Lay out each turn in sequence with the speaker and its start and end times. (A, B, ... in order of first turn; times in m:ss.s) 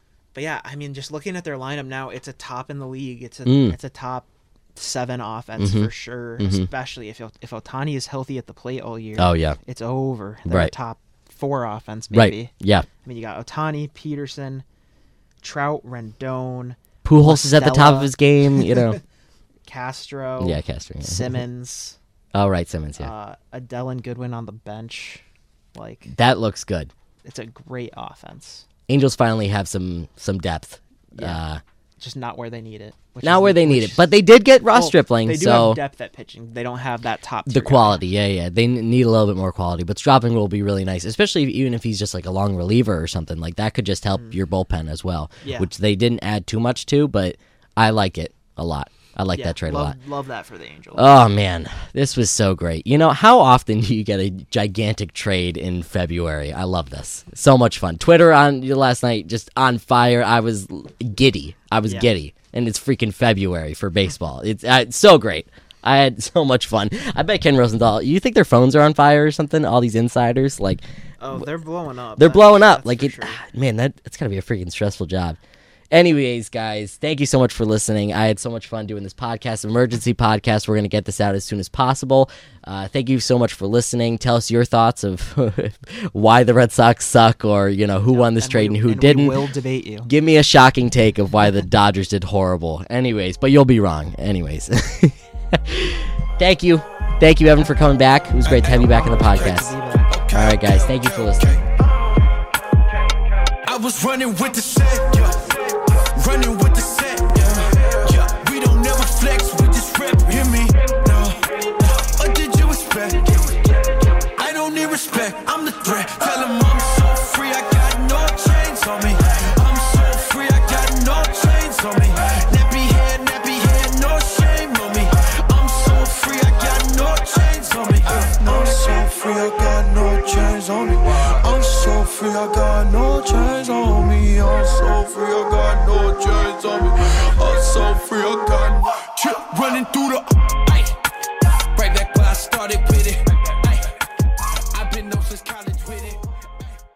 0:00.3-0:12.5 A
0:03.4-0:03.8 B
0:05.6-0:06.7 B
0:09.2-0:09.6 B
0:10.5-0:10.7 B
0:12.1-0:12.9 B
0:13.0-0:14.6 A
0:15.4-0:19.0 A
0:17.0-0:19.0 B
0:19.7-0:22.0 A
0:20.4-0:21.4 B
0:22.3-0:23.1 B
0:23.0-0:25.2 A
0:25.8-0:26.1 A
0:26.1-0:26.9 B
0:27.2-0:28.6 A
0:28.9-0:31.6 B
0:31.1-0:31.4 A
0:32.0-0:34.1 A
0:33.2-0:35.8 B
0:34.7-0:38.0 A
0:37.5-0:50.0 B
0:44.1-0:44.4 A
0:45.4-0:45.7 A
0:49.4-0:51.2 A
0:51.0-1:10.8 B
1:01.8-1:02.1 A
1:11.2-1:13.4 A
1:12.2-1:15.4 B
1:15.9-1:29.4 B
1:28.1-1:30.1 A
1:30.1-1:39.7 B
1:38.4-1:41.7 C
1:38.6-1:40.2 A
1:40.3-1:41.6 B
1:43.6-2:21.0 C
2:21.8-2:24.0 C
2:24.7-2:26.7 C